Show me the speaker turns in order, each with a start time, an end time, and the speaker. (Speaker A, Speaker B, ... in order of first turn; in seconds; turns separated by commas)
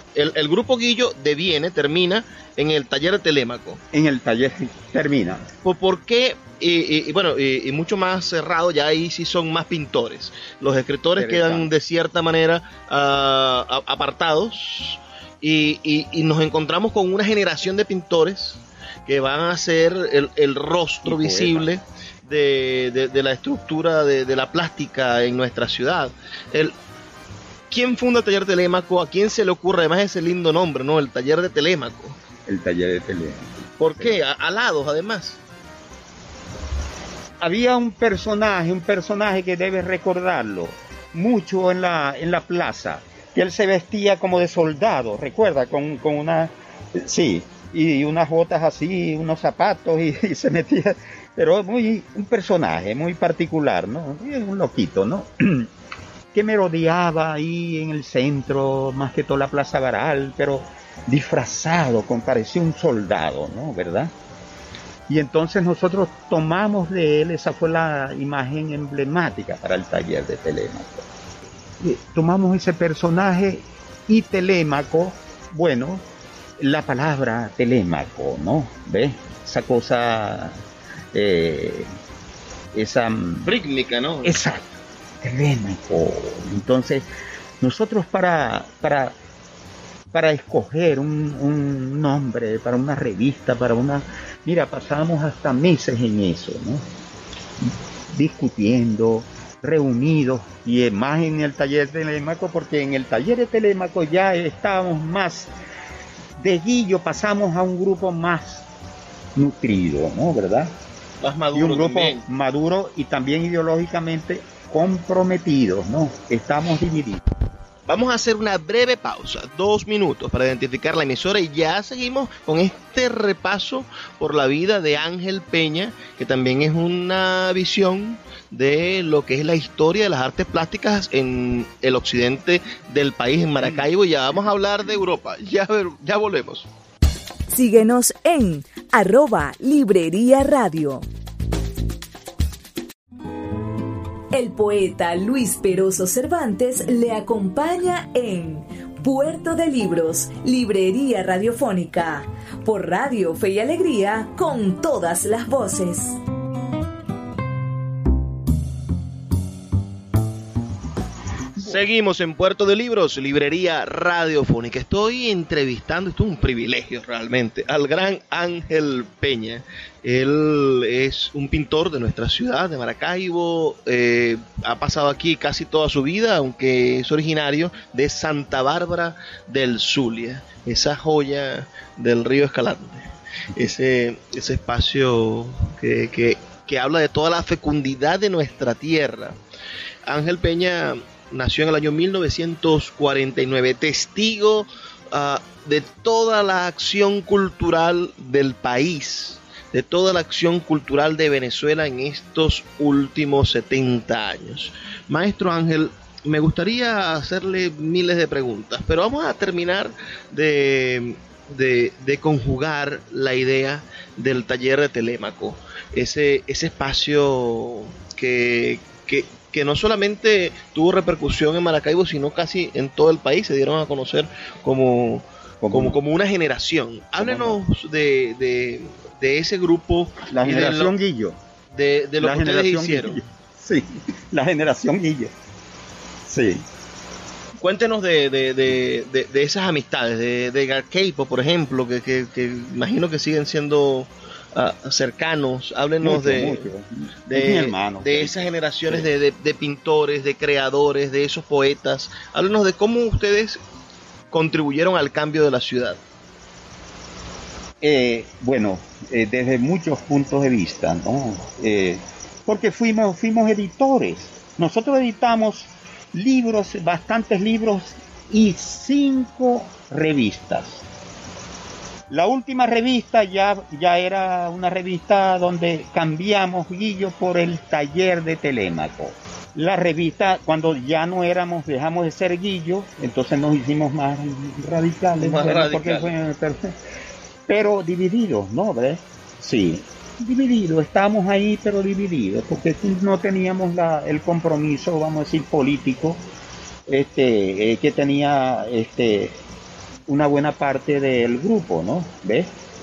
Speaker A: 0.1-3.8, Speaker B: 3.9-5.5, Speaker A: 5.6-26.8, Speaker B: 11.2-11.7, Speaker B: 21.1-21.7, Speaker A: 27.7-32.2, Speaker B: 32.5-34.2, Speaker A: 33.8-35.4, Speaker B: 37.4-55.7, Speaker B: 56.3-64.1, Speaker B: 65.1-71.1, Speaker B: 71.8-76.0, Speaker B: 76.6-80.6, Speaker B: 81.1-81.9, Speaker B: 82.8-83.5, Speaker A: 83.5-84.3, Speaker B: 84.2-87.0, Speaker B: 87.6-89.2, Speaker B: 90.1-96.8, Speaker B: 98.1-105.5, Speaker B: 106.4-108.7, Speaker B: 109.4-110.7, Speaker A: 111.2-112.2, Speaker B: 111.5-117.3, Speaker A: 117.9-136.7, Speaker C: 137.5-141.1, Speaker C: 144.3-156.2, Speaker A: 161.6-189.4, Speaker A: 190.1-230.9, Speaker B: 225.6-226.0, Speaker B: 227.2-227.6, Speaker B: 230.3-231.4, Speaker A: 231.7-233.2, Speaker B: 232.2-235.3, Speaker B: 236.3-236.7, Speaker A: 237.6-246.7, Speaker B: 246.0-248.4, Speaker A: 247.3-253.6, Speaker A: 254.3-256.0, Speaker B: 257.8-270.8, Speaker B: 272.1-286.7, Speaker A: 285.2-286.1, Speaker B: 287.5-296.2, Speaker B: 296.9-299.4, Speaker B: 300.1-302.5